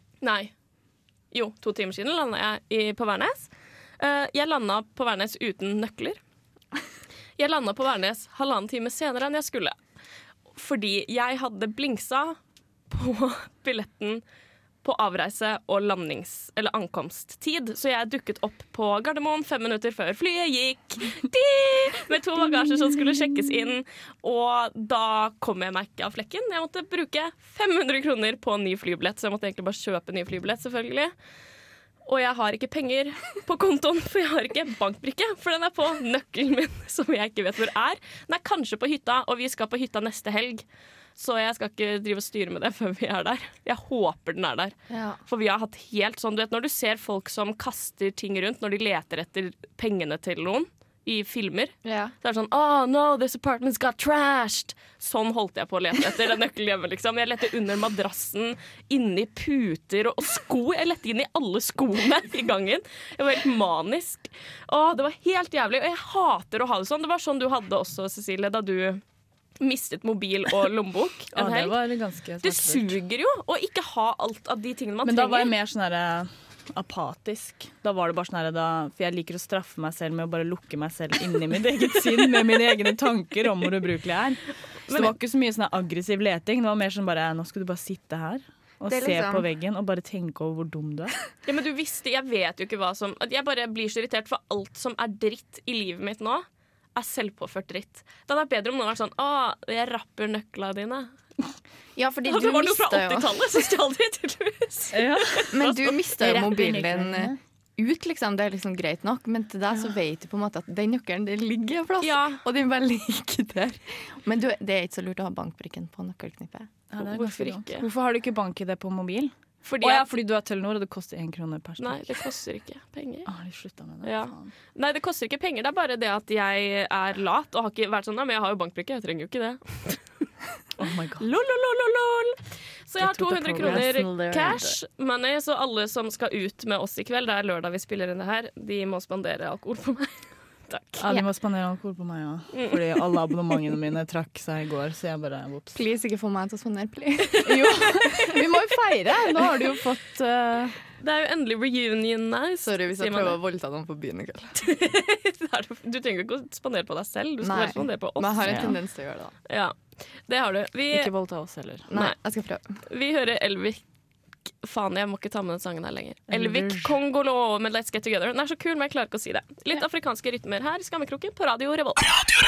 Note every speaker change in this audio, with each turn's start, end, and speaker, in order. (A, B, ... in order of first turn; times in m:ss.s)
0:00.2-0:00.5 A
0:01.3-0:06.2 A
0:07.4-0:09.8 A
0:10.6-0:12.4 A
0:12.9-0:14.2 A
0:14.8-0:31.1 A
0:32.0-0:40.6 A
0:41.2-0:44.8 A
0:44.9-0:45.2 B
0:45.3-1:09.0 A
0:51.8-0:52.1 B
1:09.6-1:11.8 A
1:11.3-1:13.0 C
1:12.4-1:15.5 A
1:15.0-1:31.2 C
1:24.9-1:25.2 A
1:28.9-1:29.5 B
1:31.5-1:41.1 A
1:42.0-1:43.4 B
1:42.3-1:46.0 A
1:44.9-1:45.5 C
1:45.5-1:56.7 B
1:46.2-1:47.4 C
1:52.0-1:52.4 A
1:56.9-2:02.3 C
1:57.0-1:57.9 A
1:59.6-2:00.1 A
2:01.8-2:03.3 A
2:03.3-2:04.5 C
2:04.0-2:10.0 A
2:10.8-2:11.2 C
2:11.2-2:21.0 A
2:13.0-2:14.8 C
2:13.6-2:14.0 B
2:21.0-2:25.8 C
2:22.5-2:23.0 A
2:25.7-2:27.8 B
2:27.4-2:30.8 C
2:31.0-2:33.4 A
2:32.6-2:34.6 B
2:34.6-2:38.7 A
2:37.4-2:39.4 B
2:38.4-2:38.8 C
2:39.5-2:41.1 A
2:40.9-2:41.9 C
2:41.9-2:42.8 B
2:42.9-2:43.8 A
2:44.6-2:52.1 A
2:46.3-2:46.9 C